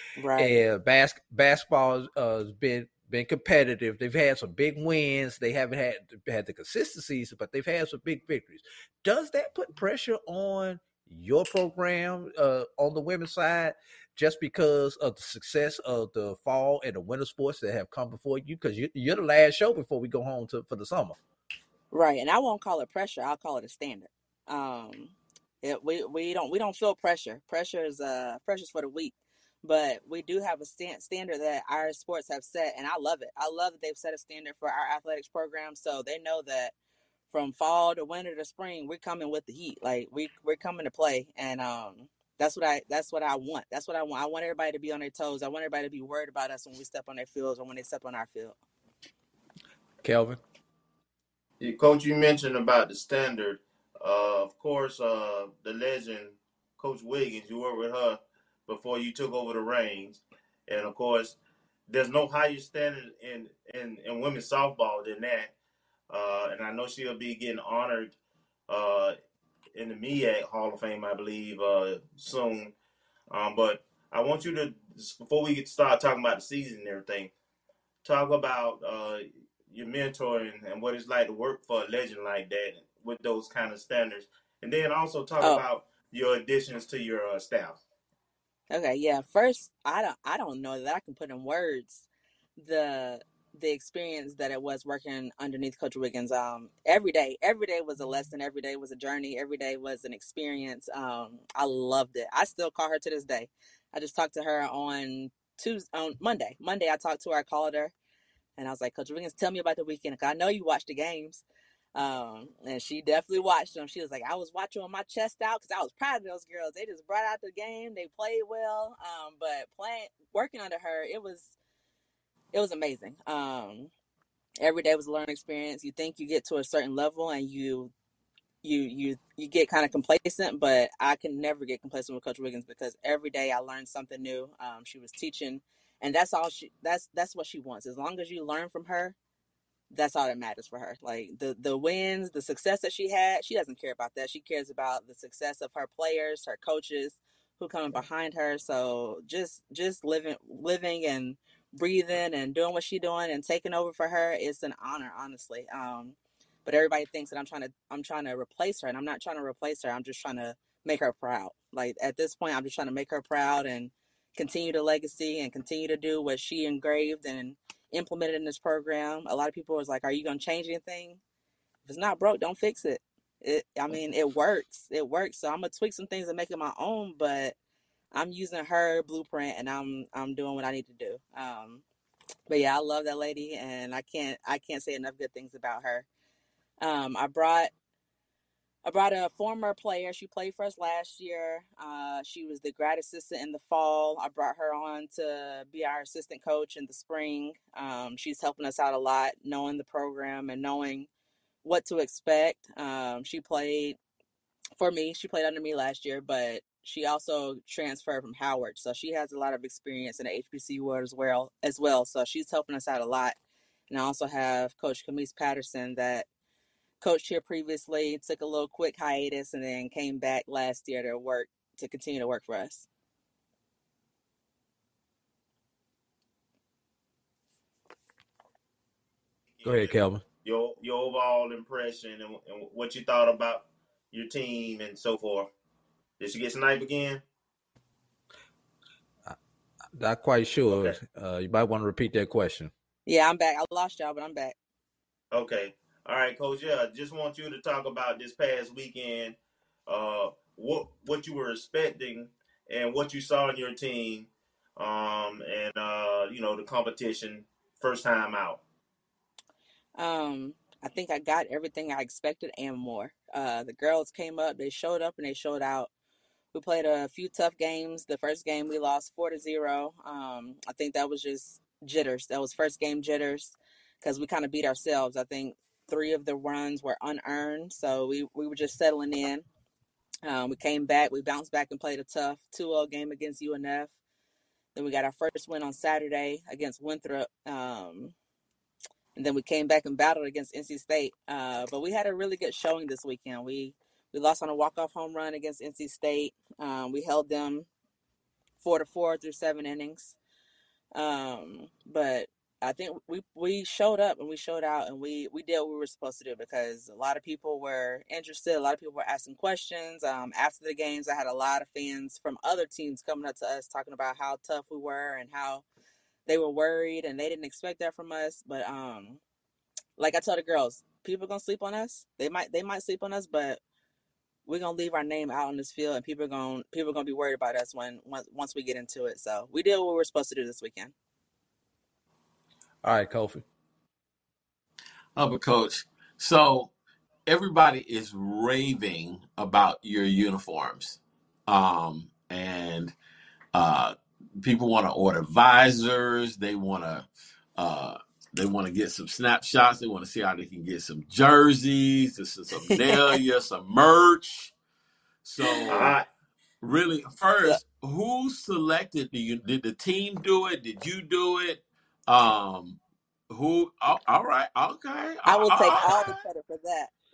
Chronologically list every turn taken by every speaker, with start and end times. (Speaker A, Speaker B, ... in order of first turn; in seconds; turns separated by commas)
Speaker A: 0.2-0.6, Speaker B: 0.4-21.2, Speaker A: 21.9-36.7, Speaker A: 37.3-48.6, Speaker B: 50.0-50.4, Speaker C: 51.6-61.4, Speaker C: 61.9-65.5, Speaker C: 66.1-68.1, Speaker C: 68.7-69.2, Speaker C: 69.8-72.7, Speaker C: 73.3-77.3, Speaker C: 78.0-87.8, Speaker A: 88.7-92.1, Speaker A: 92.6-107.9, Speaker A: 108.6-111.4, Speaker A: 112.0-121.5, Speaker A: 122.5-123.9, Speaker A: 124.6-127.9, Speaker A: 128.6-139.2, Speaker A: 139.9-171.2, Speaker A: 171.9-177.6, Speaker A: 178.1-181.8, Speaker A: 182.5-186.1, Speaker A: 186.8-187.7, Speaker A: 188.8-201.1, Speaker A: 201.6-204.0, Speaker A: 204.8-213.4, Speaker A: 213.9-216.3, Speaker A: 217.0-222.9, Speaker C: 229.6-235.5, Speaker B: 229.6-230.2, Speaker C: 236.2-237.2, Speaker B: 240.0-242.7, Speaker C: 240.7-241.0, Speaker A: 243.1-244.6, Speaker C: 245.3-249.4, Speaker C: 249.9-258.6, Speaker A: 260.0-265.9, Speaker A: 266.5-279.4, Speaker A: 280.2-283.9, Speaker A: 284.8-288.1, Speaker A: 289.2-297.7, Speaker A: 298.6-300.2, Speaker A: 300.9-315.6, Speaker A: 316.3-319.2, Speaker A: 320.0-323.6, Speaker A: 324.5-330.9, Speaker B: 332.8-333.4, Speaker D: 335.2-336.7, Speaker D: 337.3-342.9, Speaker D: 343.5-354.5, Speaker A: 352.8-353.2, Speaker D: 355.2-356.0, Speaker C: 355.7-356.1, Speaker D: 356.6-362.8, Speaker D: 363.3-366.1, Speaker A: 365.2-366.9